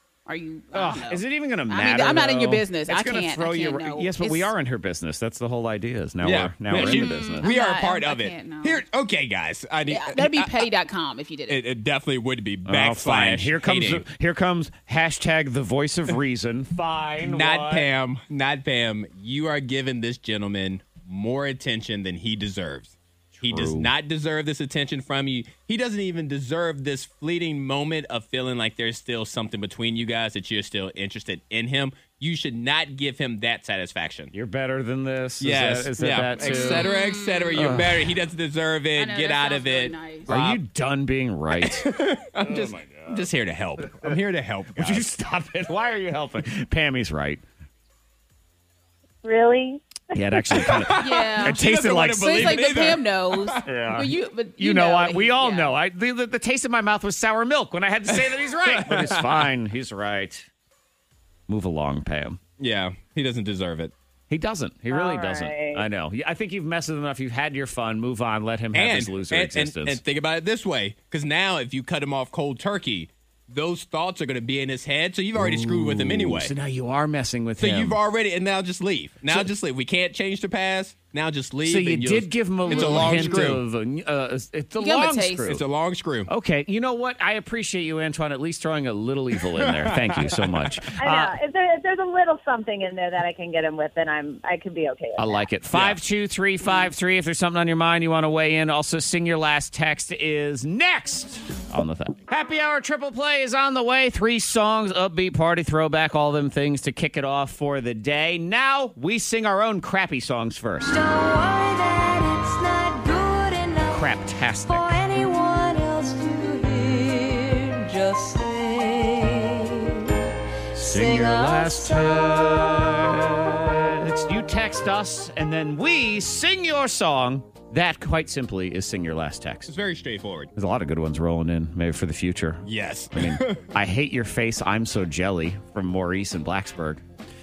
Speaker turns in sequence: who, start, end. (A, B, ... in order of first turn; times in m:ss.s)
0:00.3-0:04.5 A
0:00.7-0:07.5 B
0:06.2-0:10.7 C
0:06.7-0:08.8 A
0:09.9-0:11.6 A
0:11.5-0:14.0 C
0:12.7-0:17.9 B
0:17.2-0:34.3 C
0:23.4-0:23.9 B
0:34.3-0:36.9 B
0:35.4-0:40.6 C
0:36.4-0:37.6 A
0:37.5-0:38.2 B
0:39.0-0:40.3 A
0:40.3-0:43.3 B
0:41.6-0:45.0 C
0:43.8-0:44.2 B
0:44.8-0:47.4 B
0:49.2-0:49.8 D
0:50.1-0:52.7 B
0:50.5-0:53.7 C
0:51.0-0:55.7 A
0:53.6-1:00.5 B
0:58.7-0:59.4 C
1:01.5-1:02.4 B
1:02.6-1:03.9 C
1:04.3-1:10.0 B
1:04.9-1:05.8 D
1:08.7-1:16.5 C
1:15.4-1:18.0 B
1:17.6-1:23.6 C
1:21.6-1:25.6 B
1:22.7-1:23.5 A
1:24.8-1:25.5 A
1:25.5-1:26.3 C
1:26.3-1:31.4 B
1:29.6-1:30.8 C
1:31.0-1:35.4 D
1:35.2-1:51.0 B
1:35.7-1:36.0 C
1:50.9-1:54.1 E
1:53.9-1:55.0 B
1:54.7-1:59.6 E
2:00.7-2:09.7 B
2:00.8-2:02.9 E
2:09.7-2:10.5 C
2:10.6-2:17.0 B
2:12.7-2:13.7 C